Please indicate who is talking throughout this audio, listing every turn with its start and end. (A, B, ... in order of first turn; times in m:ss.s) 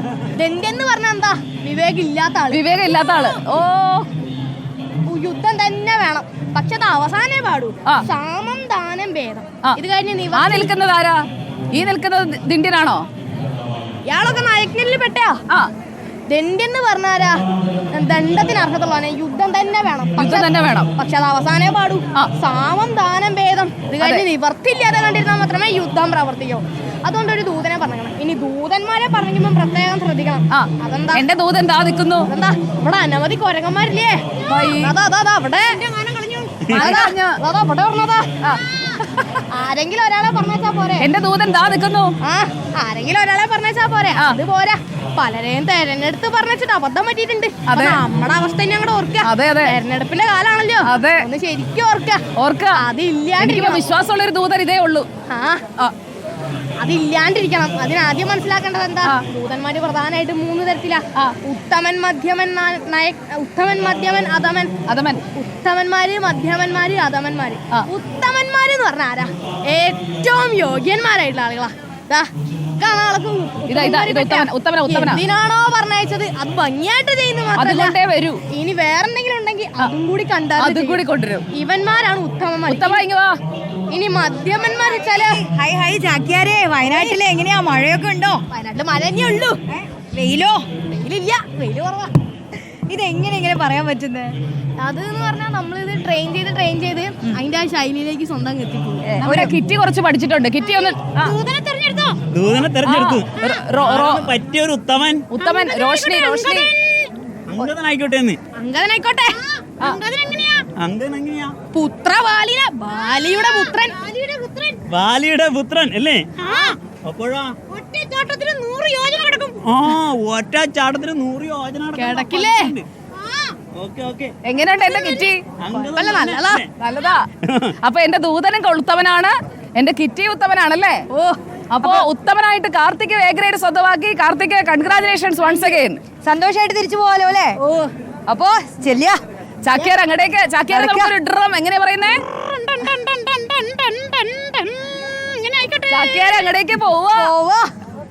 0:00.3-0:03.4 A
0:02.5-0:04.1 B
0:05.1-0:10.7 A
0:10.3-0:13.0 B
0:14.0-0:15.4 A
0:16.3-0:17.4 A
0:17.9-0:31.2 A
0:20.2-0:20.9 B
0:30.5-0:32.3 B
0:32.2-0:39.0 A
0:34.5-0:34.9 B
0:35.7-0:36.3 C
0:36.7-0:37.4 B
0:38.4-0:39.4 B
0:39.5-0:41.1 A
0:41.0-0:42.1 B
0:42.2-0:52.2 A
0:47.7-0:48.0 B
0:49.2-0:49.7 B
0:50.8-0:51.2 B
0:52.4-0:52.8 B
0:52.8-0:53.8 A
0:53.4-0:55.1 B
0:55.3-0:55.6 A
0:56.8-1:04.7 A
1:04.9-1:05.2 B
1:05.3-1:18.0 A
1:13.7-1:15.2 B
1:17.6-1:18.4 B
1:18.5-1:21.0 A
1:20.6-1:21.4 B
1:21.5-1:23.0 A
1:22.7-1:23.3 B
1:23.9-1:25.4 A
1:25.3-1:28.4 C
1:26.8-1:27.2 A
1:28.5-1:29.6 A
1:29.7-1:30.7 C
1:30.9-1:32.1 A
1:32.9-1:34.4 C
1:34.8-1:39.5 A
1:39.1-1:41.3 B
1:40.6-1:42.2 A
1:42.3-1:45.2 D
1:42.8-1:44.3 B
1:45.3-1:46.7 B
1:45.4-1:47.1 A
1:47.5-1:48.4 D
1:48.6-1:50.6 A
1:50.8-1:51.5 D
1:51.7-1:54.8 A
1:53.1-1:53.7 C
1:54.9-1:57.6 D
1:56.4-1:56.8 A
1:57.7-1:59.6 A
1:59.6-2:02.8 D
2:02.0-2:03.5 A
2:03.7-2:04.3 D
2:04.4-2:05.4 B
2:04.7-2:06.6 A
2:05.6-2:06.7 D
2:06.8-2:07.2 B
2:07.4-2:07.7 D
2:07.8-2:11.0 B
2:11.1-2:12.1 A
2:11.7-2:16.0 B
2:16.2-2:17.6 C
2:17.6-2:17.9 A
2:18.3-2:19.2 C
2:19.6-2:22.2 B
2:20.7-2:21.1 C
2:22.4-2:26.4 A
2:25.9-2:27.3 B
2:27.1-2:27.7 C